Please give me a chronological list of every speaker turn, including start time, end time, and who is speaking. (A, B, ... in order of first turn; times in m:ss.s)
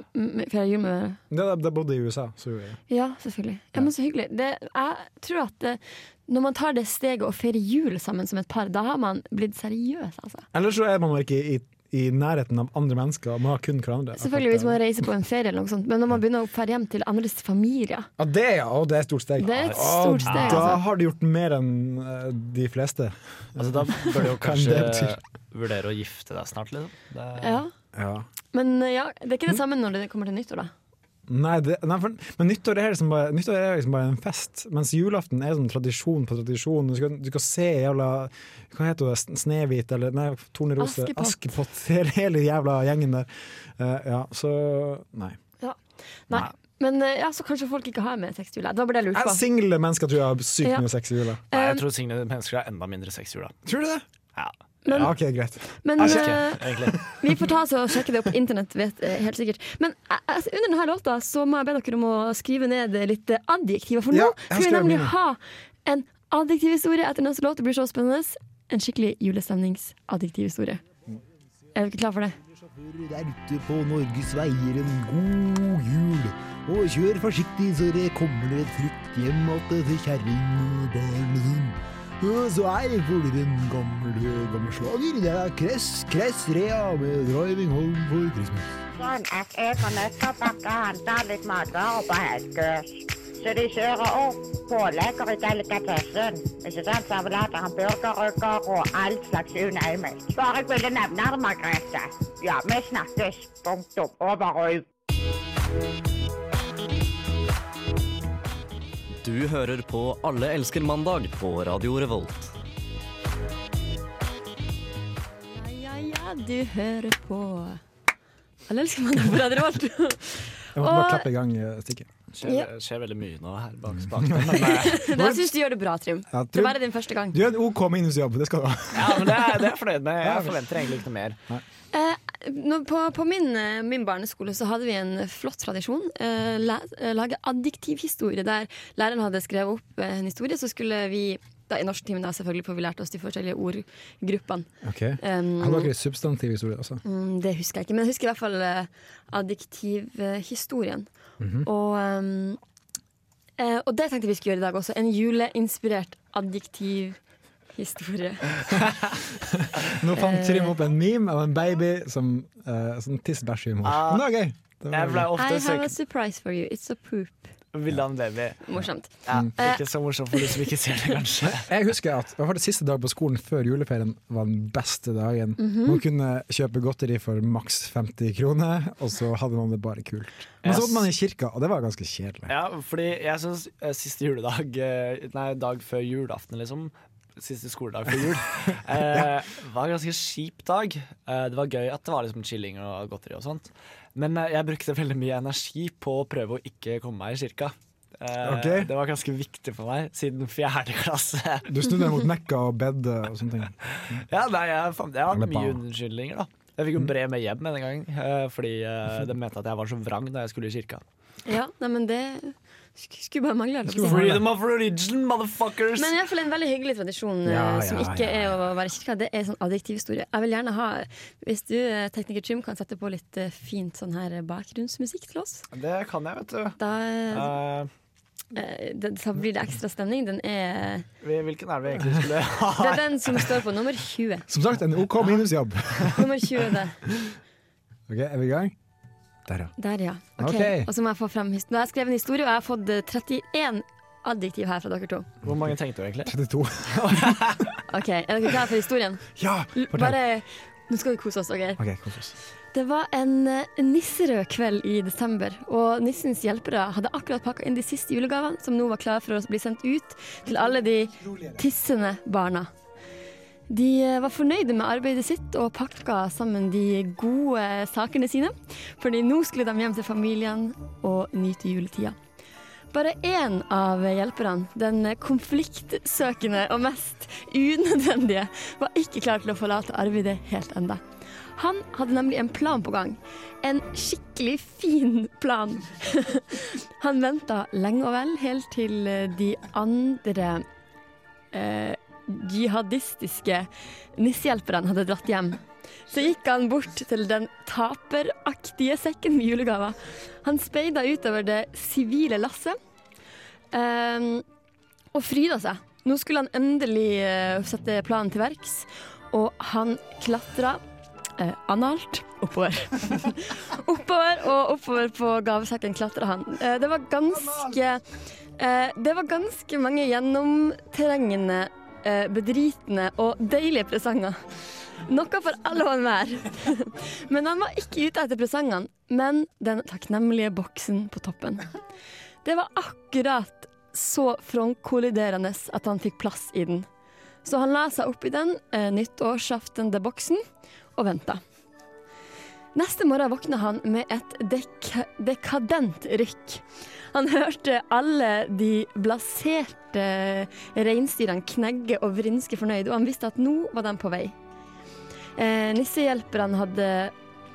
0:00.1-0:01.2 A
0:01.3-0:02.8 B
0:02.9-0:10.5 A
0:10.5-0:14.8 B
0:14.2-0:18.1 A
0:18.2-0:25.2 B
0:19.4-0:20.8 A
0:20.3-0:20.7 C
0:23.6-0:27.6 C
0:27.4-0:27.7 A
0:27.9-0:28.3 B
0:28.5-0:30.7 A
0:31.3-0:45.4 B
0:40.8-0:41.4 A
0:45.6-0:49.4 A
0:49.1-0:51.4 B
0:51.5-0:51.8 A
0:51.5-0:53.6 C
0:53.6-0:54.0 B
0:54.3-0:55.1 C
0:54.8-0:55.1 A
0:55.0-0:56.3 B
0:55.8-1:10.8 A
0:56.0-0:57.0 C
1:04.1-1:05.1 B
1:11.7-1:12.4 A
1:12.5-1:28.8 D
1:28.9-1:44.8 E
1:49.2-1:52.5 F
1:55.5-1:57.8 A
1:58.7-2:01.2 A
2:00.7-2:02.1 B
2:02.4-2:05.0 C
2:04.2-2:05.5 B
2:04.5-2:07.4 A
2:06.3-2:06.8 B
2:07.3-2:09.6 B
2:08.9-2:11.4 C
2:10.2-2:10.6 B
2:11.9-2:24.7 A
2:24.8-2:27.0 B
2:25.2-2:25.9 A
2:27.0-2:31.1 A
2:31.4-2:31.7 B
2:31.6-2:32.6 A
2:33.6-2:37.2 A
2:37.7-2:38.6 A
2:39.4-2:45.3 B
2:40.1-2:40.7 A
2:43.8-2:44.3 C
2:44.9-2:45.9 C
2:45.4-2:47.5 A
2:47.7-2:48.7 C
2:48.6-2:49.8 A
2:49.2-2:51.7 C
2:51.6-3:02.5 B
2:55.6-2:56.0 A
3:00.6-3:01.1 C
3:02.5-3:21.7 C
3:18.4-3:18.9 B
3:21.6-3:24.2 B
3:24.1-3:31.0 C
3:25.3-3:25.8 B
3:31.4-3:34.3 A
3:33.8-3:34.4 B
3:34.1-3:36.1 C
3:36.0-3:45.6 A
3:37.4-3:38.5 B
3:45.7-3:46.8 C
3:46.8-3:47.5 A
3:47.3-3:47.9 C
3:48.5-3:51.0 A
3:51.2-3:53.6 C
3:52.8-3:54.4 A
3:54.5-3:56.3 B
3:56.0-3:57.0 A
3:58.1-3:58.7 B
3:59.5-3:59.7 B
3:59.8-4:05.3 A
4:00.4-4:00.9 B
4:05.4-4:06.4 C
4:06.2-4:07.5 B
4:06.9-4:07.7 C
4:07.9-4:11.8 A
4:09.4-4:10.2 B
4:11.8-4:12.3 B
4:12.7-4:22.7 A
4:20.5-4:21.6 B
4:23.7-4:32.2 A
4:32.9-4:41.0 A
4:41.6-4:50.6 A
4:51.5-5:02.8 A
5:03.7-5:04.4 A
5:05.1-5:10.8 A
5:11.4-5:18.0 A
5:18.6-5:24.4 A
5:25.0-5:31.7 A
5:32.4-5:36.9 A
5:37.4-5:40.4 A
5:41.0-5:41.4 A
5:42.7-5:54.3 A
5:55.4-5:57.1 A